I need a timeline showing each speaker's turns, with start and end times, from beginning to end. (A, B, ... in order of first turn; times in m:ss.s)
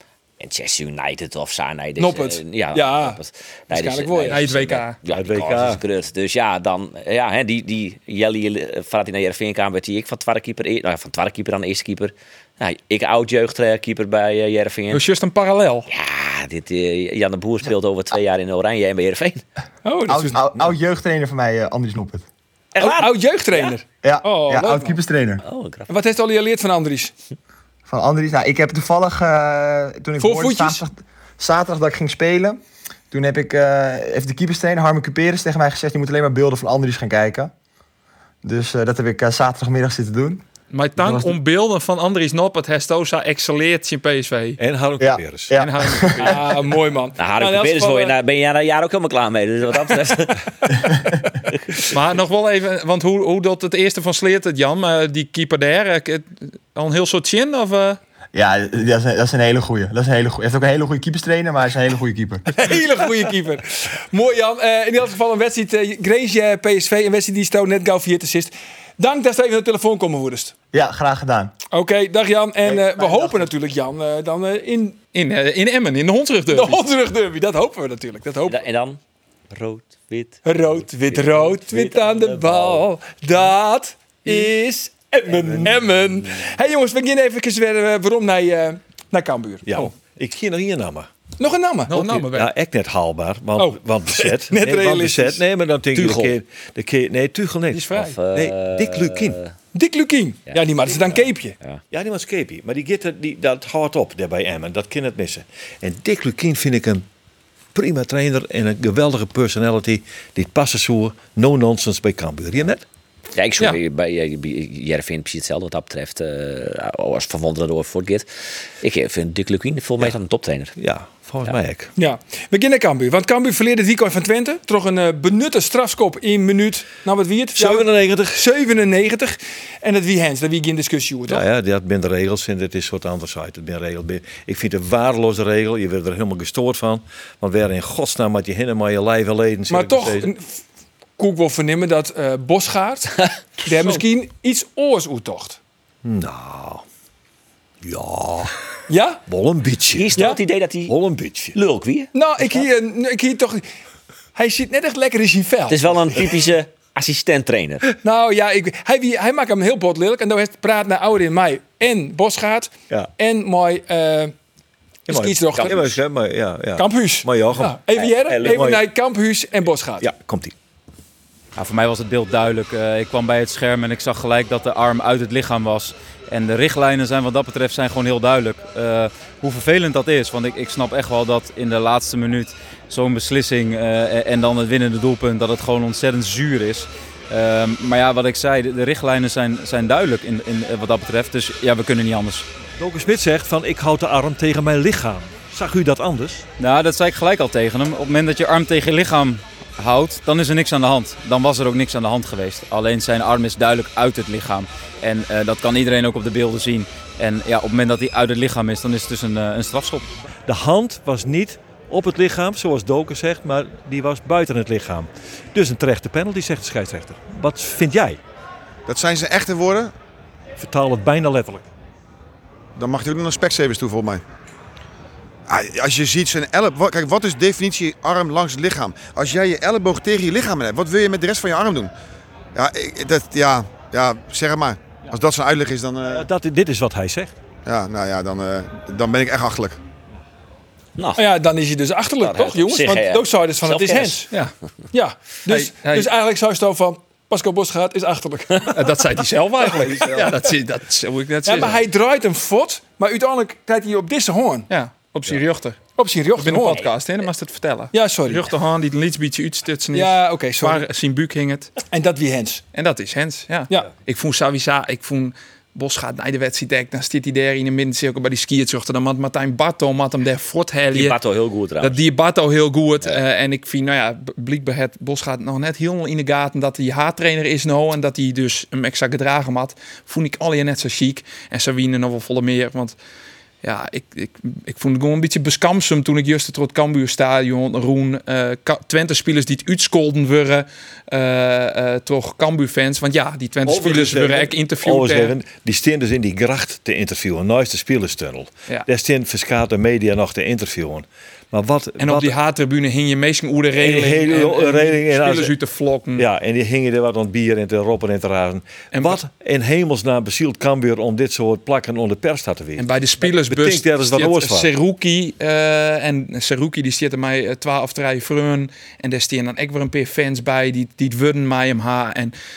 0:00.4-0:15.0 A
0:02.0-0:03.2 B
0:03.7-0:04.4 B
0:04.3-0:05.0 C
0:05.1-0:05.8 D
0:14.9-0:15.9 C
0:15.9-0:19.4 A
0:19.8-0:20.4 B
0:20.1-0:22.2 E
0:22.7-0:23.8 A
0:22.8-0:25.0 B
0:24.0-0:25.4 E
0:25.4-0:25.9 A
0:25.9-0:27.1 B
0:27.9-0:32.6 E
0:30.2-0:30.8 B
0:33.1-0:37.5 E
0:38.4-0:40.4 E
0:40.7-0:44.6 C
0:41.0-0:41.3 E
0:44.6-0:45.5 D
0:45.0-0:46.3 E
0:45.5-0:46.6 C
0:46.2-0:48.1 B
0:47.2-0:50.4 A
0:51.9-0:58.0 C
0:58.3-1:02.4 E
1:02.5-1:10.5 B
1:10.7-1:11.5 E
1:11.7-1:15.0 B
1:12.6-1:13.5 E
1:15.1-1:16.8 C
1:16.5-1:18.6 B
1:18.5-1:19.0 A
1:19.5-1:22.9 A
1:20.4-1:29.9 B
1:25.3-1:26.3 A
1:29.6-1:31.1 D
1:31.4-1:32.1 B
1:31.9-1:32.5 C
1:32.0-1:39.4 D
1:33.6-1:35.4 B
1:35.9-1:36.4 A
1:37.7-1:38.1 C
1:38.0-1:39.5 A
1:39.7-1:41.5 B
1:40.5-1:41.8 A
1:41.9-1:47.0 D
1:47.7-1:52.8 D
1:53.3-1:58.3 A
1:58.8-2:00.7 A
2:00.8-2:01.9 D
2:02.0-2:11.4 B
2:07.5-2:08.4 D
2:11.3-2:20.3 D
2:19.7-2:20.6 B
2:21.2-2:25.6 B
2:26.0-2:26.8 D
2:27.8-2:28.5 D
2:28.9-2:29.2 B
2:29.3-2:30.2 D
2:29.9-2:30.9 A
2:30.9-2:31.6 D
2:31.5-2:32.1 A
2:32.1-2:33.6 B
2:34.3-2:35.9 B
2:35.7-2:37.9 A
2:38.0-2:44.3 B
2:45.1-2:45.9 B
2:45.1-2:47.8 D
2:45.5-2:45.9 A
2:46.8-2:50.1 B
2:47.9-2:48.6 A
2:48.3-2:48.8 D
2:50.0-2:50.5 D
2:51.6-3:12.5 F
3:12.8-3:16.5 D
3:16.6-3:30.0 F
3:30.5-3:38.2 D
3:38.9-3:39.9 G
3:40.6-3:41.7 D
3:42.8-3:44.2 G
3:45.5-3:51.9 G
3:52.5-3:56.2 G
3:56.1-3:57.3 D
3:57.6-3:59.8 G
4:01.0-4:01.2 A
4:01.2-4:04.3 B
4:02.2-4:04.2 A
4:04.9-4:08.7 B
4:05.5-4:06.1 C
4:08.7-4:11.8 C
4:09.7-4:10.3 B
4:11.4-4:14.7 B
4:14.7-4:15.8 C
4:16.0-4:16.8 B
4:16.4-4:21.8 C
4:17.9-4:18.5 B
4:19.9-4:20.8 B
4:21.9-4:22.6 B
4:22.7-4:31.2 C
4:30.9-4:32.0 A
4:31.8-4:43.0 C
4:43.6-4:55.3 C
4:53.6-5:02.4 D
5:02.0-5:06.3 C
5:03.7-5:05.6 D
5:06.2-5:14.7 D
5:08.9-5:09.2 C
5:12.8-5:22.3 C